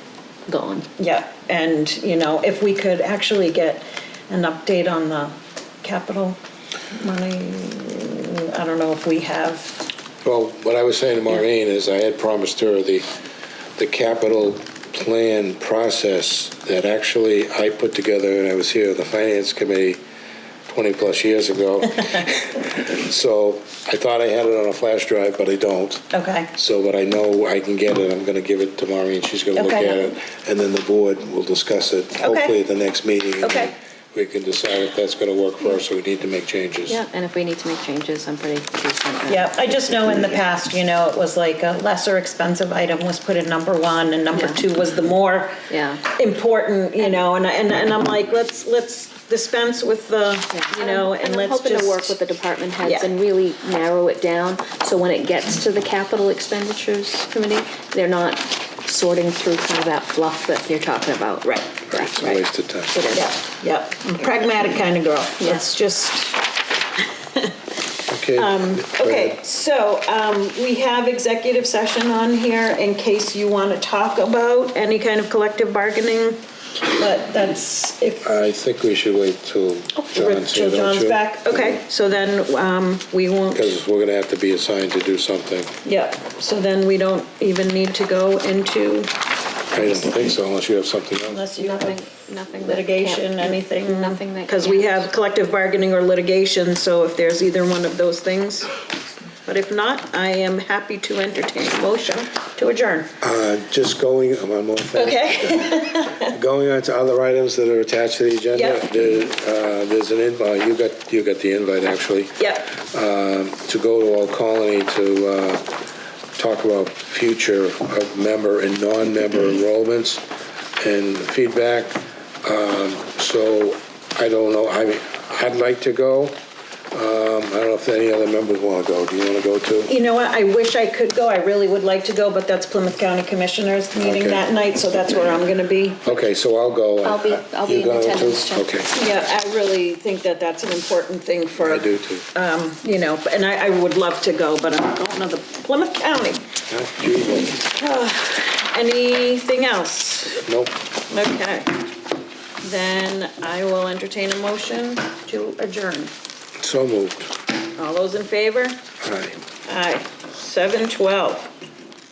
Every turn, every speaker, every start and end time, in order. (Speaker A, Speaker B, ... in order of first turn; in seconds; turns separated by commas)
Speaker A: 0.5-0.8, Speaker B: 1.0-6.4, Speaker B: 6.9-9.9, Speaker C: 10.2-13.0, Speaker C: 13.8-20.0, Speaker C: 20.6-37.0, Speaker B: 26.1-26.5, Speaker B: 29.6-29.9, Speaker B: 32.2-32.5, Speaker B: 33.4-33.7, Speaker A: 36.9-40.3, Speaker B: 39.3-45.6, Speaker A: 44.3-44.6, Speaker A: 45.7-46.1, Speaker B: 46.1-52.2, Speaker A: 50.5-62.1, Speaker B: 52.8-53.1, Speaker C: 61.9-62.9, Speaker A: 62.9-63.4, Speaker B: 63.1-66.5, Speaker A: 65.4-65.7, Speaker C: 68.1-69.4, Speaker B: 68.3-78.3, Speaker C: 78.2-81.7, Speaker B: 80.0-83.8, Speaker C: 83.5-85.7, Speaker B: 85.8-89.1, Speaker C: 89.7-91.4, Speaker B: 91.3-92.0, Speaker A: 91.6-95.1, Speaker B: 92.6-98.7, Speaker B: 99.4-103.1, Speaker C: 103.2-115.6, Speaker B: 104.9-106.3, Speaker B: 108.5-108.8, Speaker B: 112.4-112.7, Speaker C: 116.4-120.2, Speaker C: 120.8-126.4, Speaker C: 126.9-129.9, Speaker B: 129.9-136.2, Speaker C: 134.0-134.4, Speaker C: 136.0-138.9, Speaker A: 137.0-138.7, Speaker B: 138.9-146.4, Speaker C: 141.6-142.3, Speaker C: 146.7-147.6, Speaker B: 147.6-150.4, Speaker C: 150.4-150.8, Speaker B: 151.1-151.8, Speaker B: 152.6-156.1, Speaker C: 156.6-157.3, Speaker B: 157.7-158.8, Speaker C: 159.0-159.4, Speaker B: 159.6-161.5